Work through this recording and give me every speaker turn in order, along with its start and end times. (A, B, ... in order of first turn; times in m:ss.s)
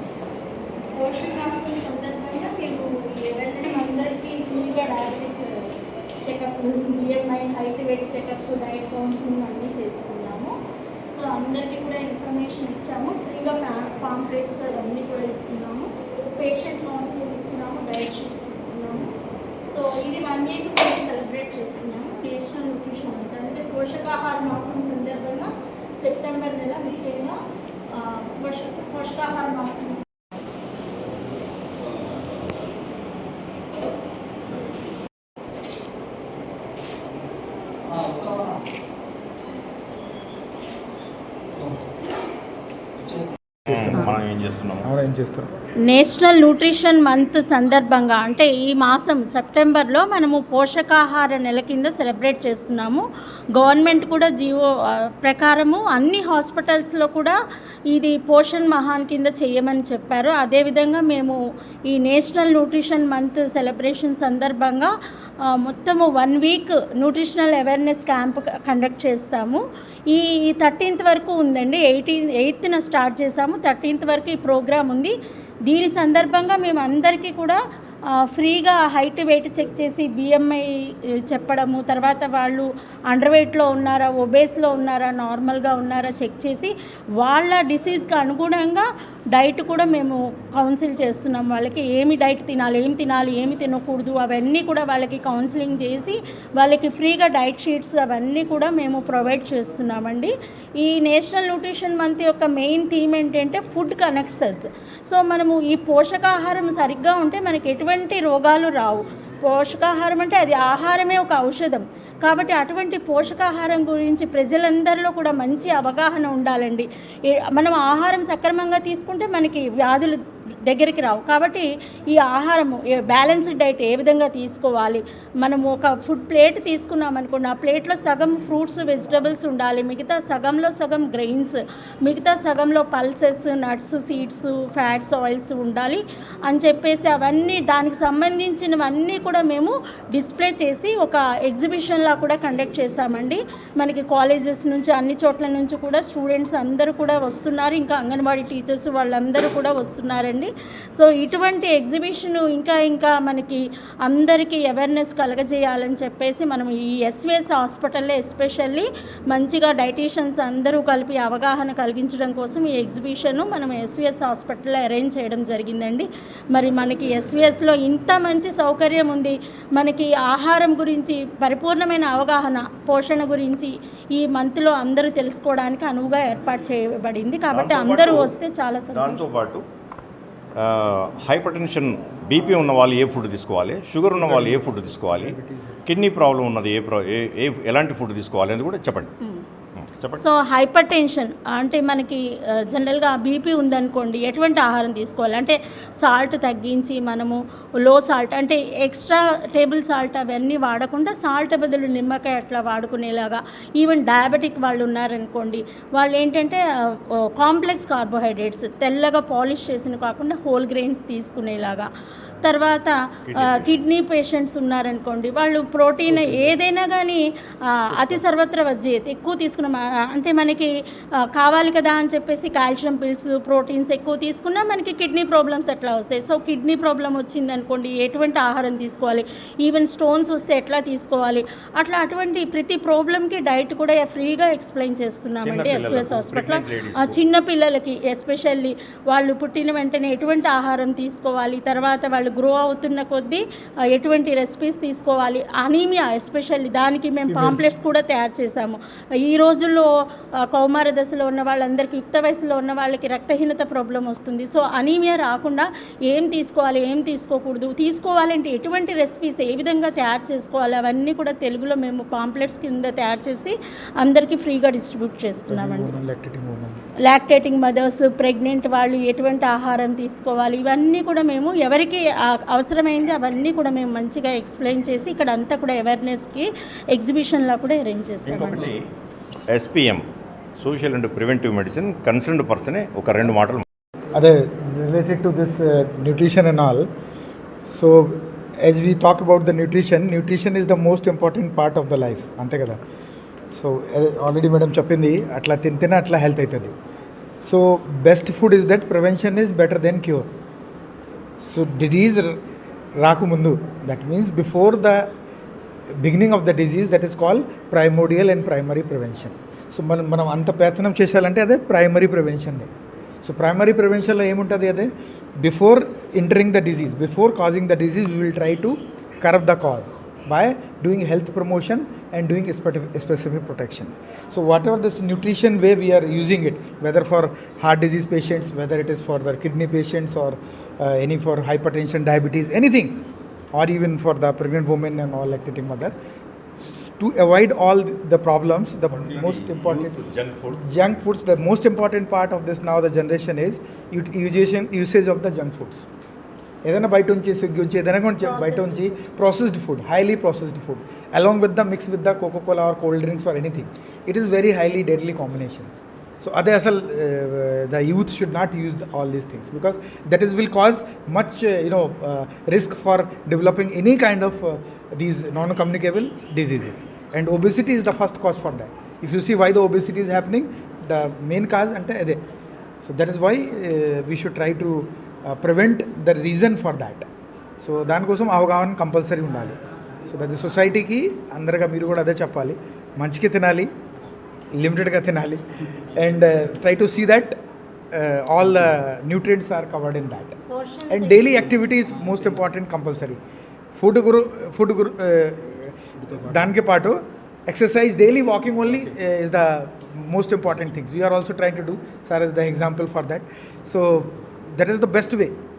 0:00.9-0:05.7 A
0:06.2-0:10.6 A
0:11.1-0:19.1 A
0:19.7-0:27.4 A
0:27.9-0:30.0 A
0:43.7-0:44.2 B
0:43.7-0:44.9 C
0:44.8-0:45.5 B
0:45.9-0:53.0 A
0:53.6-0:57.4 A
0:57.9-1:01.4 A
1:01.9-1:04.9 A
1:05.4-1:15.1 A
1:15.7-1:17.6 A
1:18.2-1:20.7 A
1:21.3-2:59.2 A
2:57.5-2:58.4 C
2:58.9-2:59.6 C
3:00.6-3:09.1 C
3:04.1-3:05.8 B
3:09.8-3:10.2 C
3:10.2-3:31.9 A
3:32.4-3:40.7 A
3:33.3-3:33.8 C
3:41.3-4:09.9 A
3:55.4-3:57.2 C
4:07.3-4:07.7 B
4:10.5-4:26.0 A
4:25.5-4:26.8 B
4:27.1-4:38.7 A
4:38.3-4:38.8 C
4:39.5-4:40.0 C
4:40.6-4:43.6 C
4:44.2-4:46.9 B
4:47.6-4:52.8 B
4:53.5-4:56.7 B
4:57.4-5:00.3 B
5:01.4-5:02.4 B
5:03.0-5:05.1 B
5:06.0-5:12.7 B
5:13.2-5:35.9 B
5:36.6-5:40.0 B
5:38.9-5:40.6 C
5:40.5-5:45.9 B
5:46.7-6:12.2 B
5:48.2-5:49.2 A
6:12.8-6:17.1 B
6:17.6-6:23.7 B
6:24.5-6:25.4 B
6:25.9-6:27.4 B
6:27.9-6:30.4 B
6:30.5-6:31.6 A
6:30.9-6:33.2 B
6:33.8-6:45.4 B